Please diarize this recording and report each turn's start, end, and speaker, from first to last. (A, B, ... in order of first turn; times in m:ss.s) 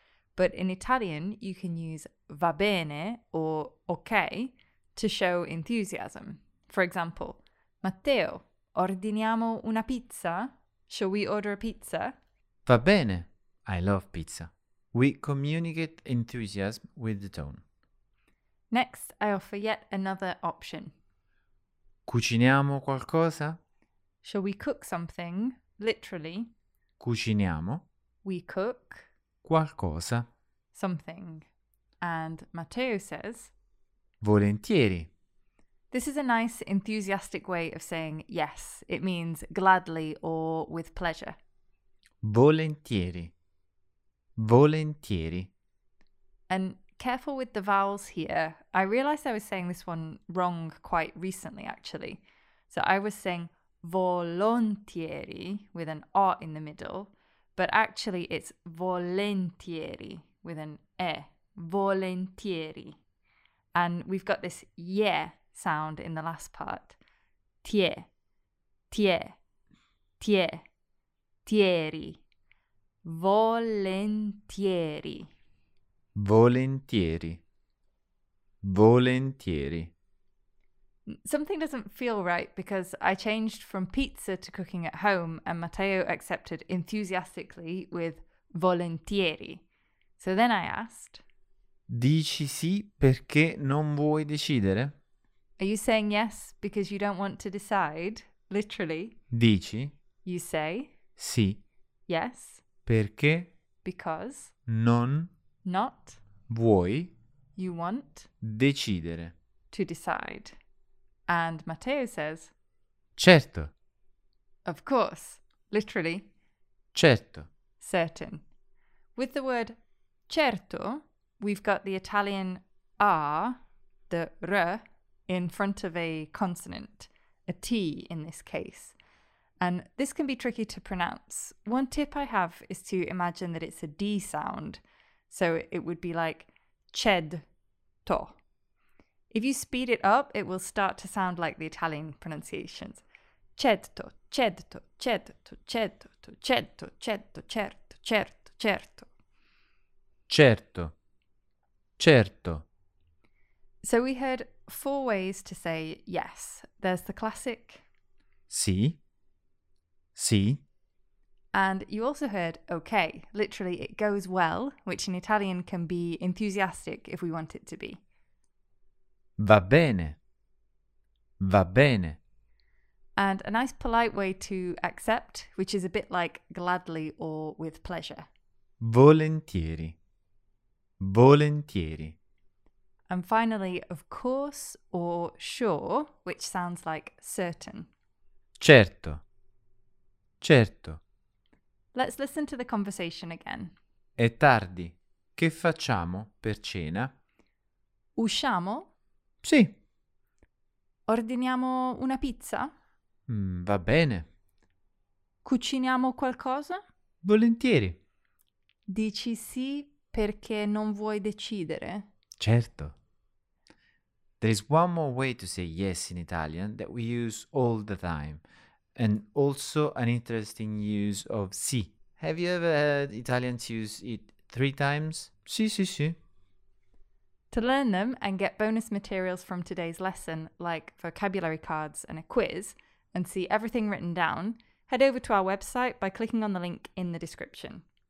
0:00.4-0:12.1 A
0:12.7-0:17.6 B
0:18.7-0:20.9 A
0:22.1-0:23.6 B
0:24.2-0:26.5 A
0:27.0-0:27.8 B
0:28.2-0:29.1 A
0:29.4-0:30.3 B
0:30.7-0:31.5 A
0:32.0-0:33.5 A
0:34.2-0:35.1 B
0:35.9-0:41.4 A
0:42.2-0:43.3 B
0:44.4-0:45.5 B
0:46.5-1:03.0 A
1:03.7-1:07.0 A
1:07.6-1:08.1 A
1:08.9-1:09.4 A
1:10.2-1:10.6 A
1:11.5-1:12.2 A
1:13.0-1:15.3 A
1:16.2-1:17.4 B
1:18.6-1:19.9 B
1:21.1-1:29.6 A
1:30.2-1:31.2 A
1:31.9-1:34.9 B
1:35.6-1:39.2 A
1:39.3-1:40.0 B
1:40.2-1:40.9 A
1:41.2-1:41.6 B
1:42.1-1:42.6 A
1:42.9-1:43.5 B
1:43.8-1:44.5 A
1:44.7-1:45.3 B
1:45.6-1:46.2 A
1:46.5-1:47.1 B
1:47.6-1:48.3 A
1:48.4-1:49.3 B
1:49.7-1:50.6 A
1:51.3-1:52.5 A
1:53.2-1:53.7 B
1:54.7-1:56.3 A
1:56.9-1:57.5 B
1:57.8-1:58.4 A
1:59.2-1:59.8 A
2:00.3-2:03.6 A
2:04.1-2:09.0 A
2:09.6-2:17.5 A
2:18.0-2:18.4 A
2:19.3-2:23.0 A
2:23.6-2:29.1 A
2:30.3-2:30.9 B
2:32.0-2:32.6 B
2:33.8-2:37.8 A
2:38.5-2:39.0 B
2:40.2-2:40.6 B
2:41.5-2:48.0 A
2:49.4-2:50.2 B
2:51.4-2:52.2 B
2:53.2-2:58.3 A
2:58.8-3:00.0 B
3:01.0-3:02.2 B
3:03.1-3:07.9 A
3:08.6-3:09.2 B
3:10.4-3:11.0 B
3:11.9-3:13.8 A
3:14.2-3:17.1 B
3:18.2-3:18.9 A
3:19.4-3:19.8 B
3:21.1-3:22.7 A
3:23.3-3:24.3 B
3:25.4-3:26.8 A
3:27.2-3:28.0 B
3:28.9-3:32.1 A
3:32.4-3:33.0 B
3:34.4-3:38.4 B
3:39.0-3:46.2 B
3:47.5-3:57.8 A